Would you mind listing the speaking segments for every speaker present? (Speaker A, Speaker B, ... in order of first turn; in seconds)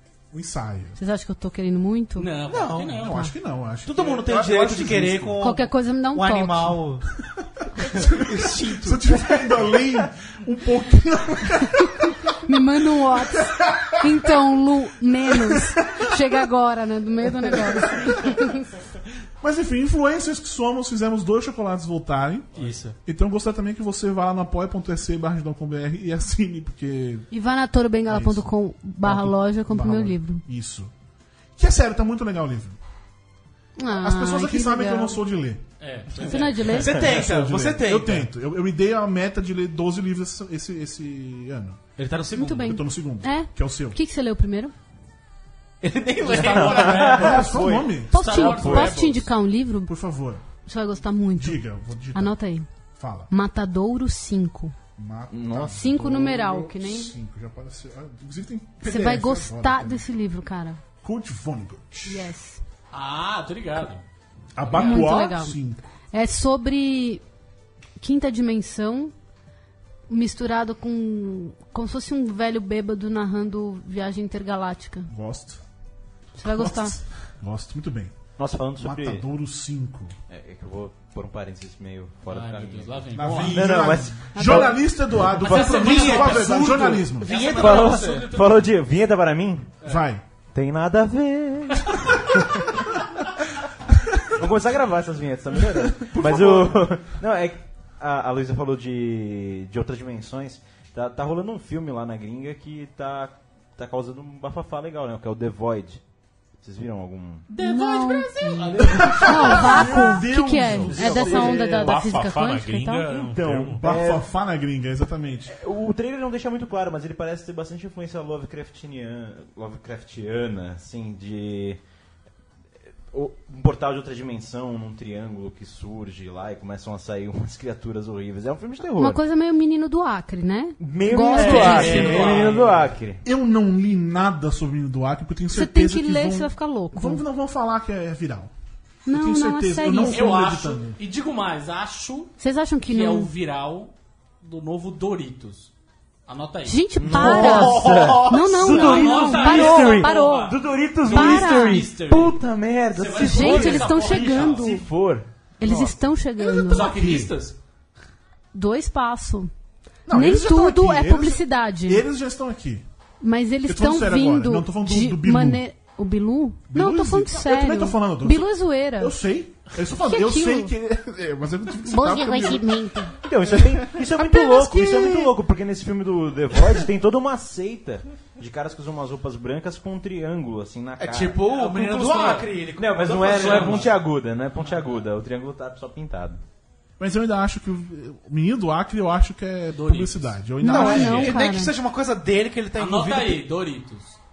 Speaker A: 0.3-1.0, 2.9-5.4, 7.3-12.3, 13.1-14.3, 15.3-16.2, 17.4-18.1, 19.4-22.5, 23.0-27.3, 28.1-28.5, 29.0-30.9, 31.6-32.8, 33.9-35.6, 37.0-41.8, 42.5-44.0, 47.1-48.8, 49.9-50.4, 51.4-52.4, 53.0-53.3, 55.0-60.0, 61.0-62.3, 64.5-65.8, 75.1-75.6, 76.4-78.2, 78.8-80.1, 83.1-87.3, 89.8-90.2, 96.0-96.6, 108.8-111.5, 113.3-115.5, 131.7-132.5, 133.2-138.5, 139.1-141.0, 156.8-157.3, 160.1-162.8, 163.6-165.6, 166.7-173.1, 174.2-175.2, 187.0-191.4
Speaker B: 1.0-2.3, 5.4-6.8, 11.7-18.7, 27.3-30.4, 33.8-35.2, 36.2-37.0, 42.3-44.7, 48.1-49.9, 50.6-52.7, 53.3-54.7, 55.6-57.1, 58.8-60.8, 62.0-62.6, 64.7-65.6, 66.1-67.2, 68.0-69.1, 70.1-75.1, 76.4-77.0, 84.3-84.8, 107.6-113.1, 129.0-132.3, 135.5-137.2, 139.1-140.2, 142.4-143.3, 146.6-150.5, 151.1-151.8, 153.2-154.8, 155.6-157.0, 158.5-159.5, 160.1-162.0, 163.2-169.2, 169.8-170.7, 171.9-173.1, 190.6-191.7
Speaker C: 2.2-3.3, 22.5-22.8, 35.8-36.9, 46.2-49.2, 62.9-64.0, 82.3-83.9, 85.3-88.7, 107.5-109.9, 131.3-132.9, 140.0-145.7, 146.3-152.4, 152.9-154.8, 156.4-157.6, 181.5-182.5, 183.2-184.0, 184.5-185.1, 189.7-190.4, 192.8-194.2
Speaker D: 2.5-3.0, 3.8-7.1, 7.8-9.6, 22.6-22.9, 36.7-38.3, 42.0-42.7, 45.8-47.4, 85.6-88.2, 147.7-148.1, 181.0-184.0, 190.6-193.4
Speaker E: 46.3-49.0, 55.3-55.7, 78.3-79.2, 80.3-84.8, 85.4-85.8, 87.4-89.7, 90.5-92.6, 94.3-106.0, 106.6-107.5, 110.9-112.0, 113.4-114.3, 115.5-121.8, 123.1-129.2, 130.8-133.2, 147.0-155.3, 173.1-181.5, 182.7-186.4
Speaker F: 111.3-113.8